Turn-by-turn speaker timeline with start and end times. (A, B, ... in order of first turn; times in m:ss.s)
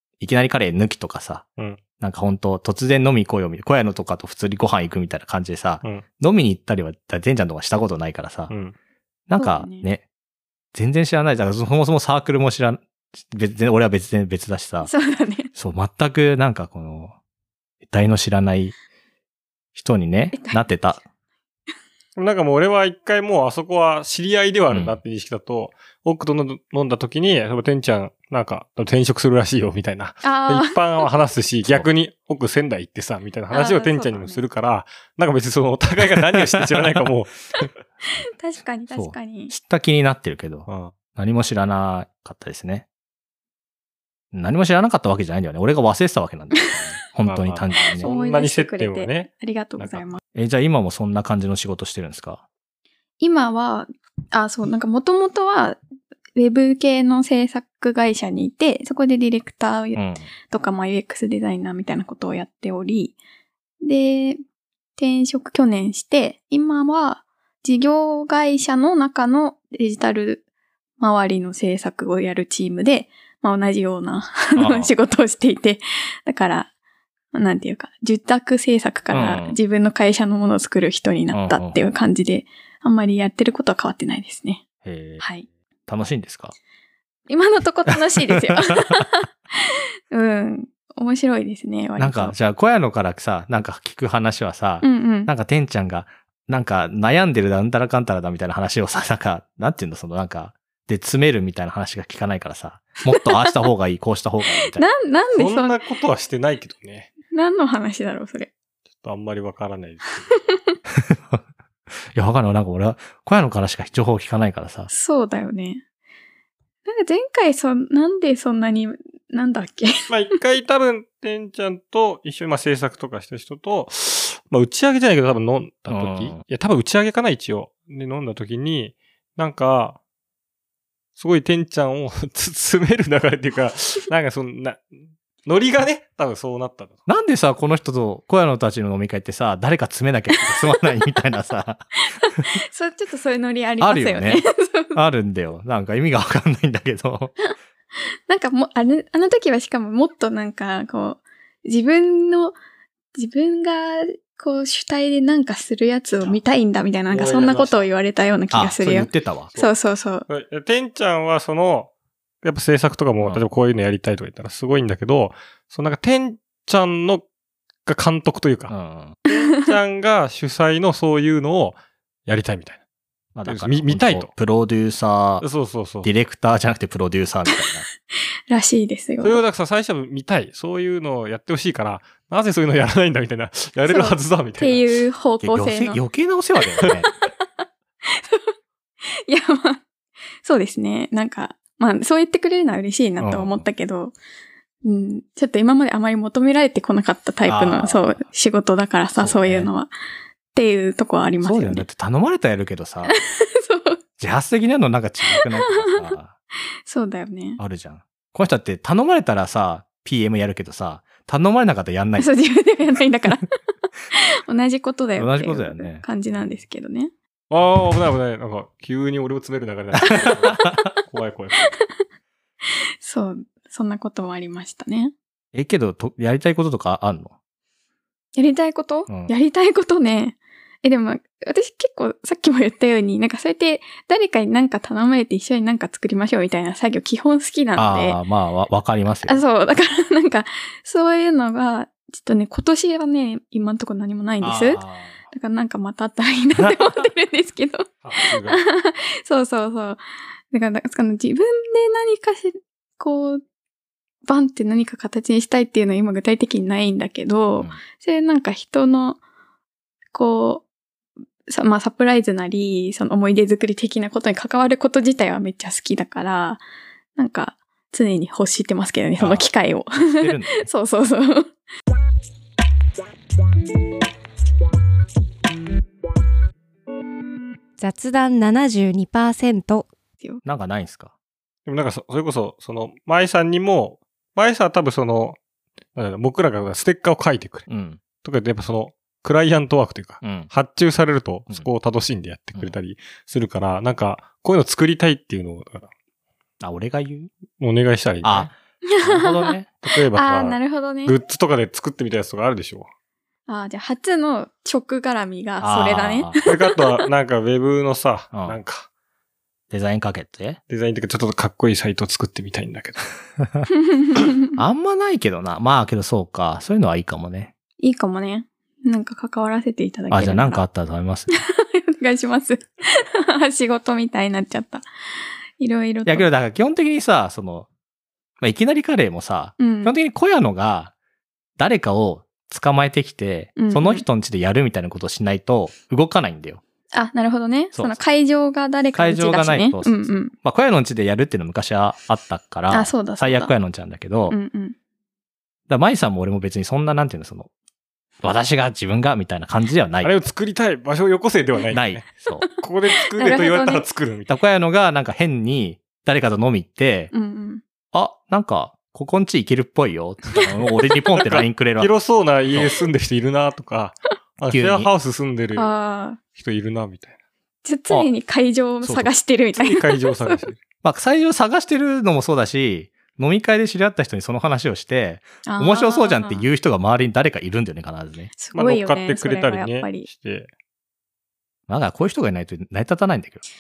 0:00.2-0:01.4 A
0:02.0-0:08.5 A
0:08.5-0:08.8 B
0:09.3-0:10.0 A
0:09.4-0:09.9 C
0:10.7-0:14.9 A
0:14.8-0:15.5 C
0:15.5-0:17.2 A
0:17.9-0:18.8 A
0:19.8-0:21.0 A
0:20.3-0:20.8 C
0:22.2-0:37.7 B
0:24.7-0:25.0 A
0:30.2-0:31.1 C
0:33.5-0:34.4 C
0:36.4-0:36.8 A
0:38.3-0:39.5 C
0:38.9-0:42.8 A
0:40.7-0:40.9 B
0:44.3-0:48.1 A
0:46.6-0:46.9 C
0:47.2-0:50.0 B
0:47.9-0:50.2 C
0:50.3-0:52.4 A
0:53.2-0:55.8 C
0:56.4-1:03.2 C
1:00.0-1:00.3 A
1:03.8-1:04.4 C
1:05.0-1:10.4 C
1:11.0-1:16.7 C
1:14.6-1:14.9 A
1:17.3-1:24.6 C
1:19.1-1:19.6 A
1:21.3-1:21.8 A
1:24.8-1:25.2 A
1:25.2-1:25.5 C
1:25.9-1:26.6 A
1:27.3-1:32.4 C
1:28.4-1:29.0 A
1:32.0-1:44.9 A
1:34.8-1:35.3 C
1:43.2-1:43.5 C
1:44.6-1:45.8 C
1:45.3-1:47.1 B
1:47.3-1:48.5 C
1:49.0-1:50.4 B
1:50.3-1:50.7 C
1:50.9-1:51.4 A
1:52.1-1:54.9 A
1:54.9-1:55.8 C
1:56.9-1:59.9 C
2:00.1-2:10.0 B
2:05.9-2:06.4 A
2:11.2-2:17.0 B
2:17.1-2:21.8 A
2:20.4-2:21.0 C
2:22.0-2:25.0 C
2:23.8-2:27.3 A
2:28.3-2:32.6 C
2:33.1-2:40.3 C
2:37.1-2:37.9 B
2:38.5-2:39.5 A
2:40.3-2:41.9 B
2:42.4-2:47.2 B
2:47.9-2:48.8 B
2:48.7-2:49.2 A
2:49.3-2:52.8 B
2:49.3-2:49.7 C
2:53.4-2:55.4 A
2:53.5-2:54.3 B
2:55.4-2:56.1 B
2:56.0-2:57.8 A
2:58.5-2:59.4 C
2:59.2-3:05.0 B
3:03.9-3:06.0 C
3:05.4-3:07.1 A
3:06.8-3:07.4 C
3:08.0-3:08.5 C
3:09.1-3:09.8 C
3:10.4-3:14.2 C
3:13.2-3:13.6 A
3:14.8-3:19.9 C
3:17.5-3:18.2 A
3:19.2-3:19.7 A
3:20.5-3:21.9 C
3:21.4-3:23.2 A
3:23.1-3:24.0 C
3:24.2-3:26.3 A
3:25.3-3:26.1 C
3:26.9-3:27.6 C
3:27.6-3:32.3 A
3:32.2-3:33.5 C
3:34.1-3:37.1 C
3:35.2-3:36.0 A
3:37.5-3:41.7 B
3:40.4-3:40.9 A
3:41.6-3:42.0 C
3:42.7-3:45.1 C
3:45.5-3:47.3 A
3:48.4-3:58.2 C
3:57.8-3:59.4 A
3:59.3-4:13.4 C
4:04.4-4:05.2 A
4:08.0-4:08.6 B
4:14.3-4:19.2 C
4:20.1-4:20.7 C
4:21.5-4:26.6 C
4:27.2-4:31.5 C
4:29.2-4:30.7 A
4:37.8-4:39.9 D
4:40.4-4:41.1 A
4:41.7-4:45.4 B
4:46.0-4:47.7 B
4:47.7-4:48.0 A
4:48.2-4:55.9 B
4:50.2-4:50.5 A
4:56.6-4:57.3 A
4:57.6-4:58.5 B
4:58.2-4:59.7 A
4:58.9-5:01.2 C
4:59.8-5:02.9 B
5:03.5-5:07.0 C
5:05.6-5:06.4 A
5:06.5-5:08.9 B
5:08.3-5:08.6 A
5:09.7-5:10.6 A
5:10.7-5:13.0 B
5:13.4-5:13.7 A
5:13.7-5:14.6 C
5:14.6-5:17.5 A
5:17.8-5:20.6 C
5:20.1-5:21.4 A
5:21.3-5:24.9 C
5:25.6-5:26.3 C
5:26.1-5:27.7 A
5:28.4-5:30.9 A
5:29.6-5:30.0 C
5:31.6-5:36.6 A
5:33.6-5:34.0 C
5:36.9-5:40.3 C
5:37.7-5:38.0 A
5:38.9-5:44.4 A
5:42.7-5:43.5 C
5:44.3-5:44.8 C
5:45.7-5:47.5 A
5:48.2-5:50.1 A
5:50.0-5:52.1 B
5:51.7-5:52.5 A
5:52.6-5:54.3 B
5:53.0-5:53.9 C
5:54.3-5:57.1 A
5:57.1-5:57.6 C
5:57.9-6:01.9 A
6:01.2-6:05.7 B
6:04.5-6:04.9 A
6:05.6-6:06.2 C
6:06.4-6:07.2 B
6:07.6-6:10.4 C
6:08.8-6:09.1 A
6:09.6-6:10.6 B
6:10.8-6:18.3 A
6:15.4-6:16.5 C
6:18.4-6:20.1 C
6:18.5-6:20.5 B
6:21.7-6:23.4 A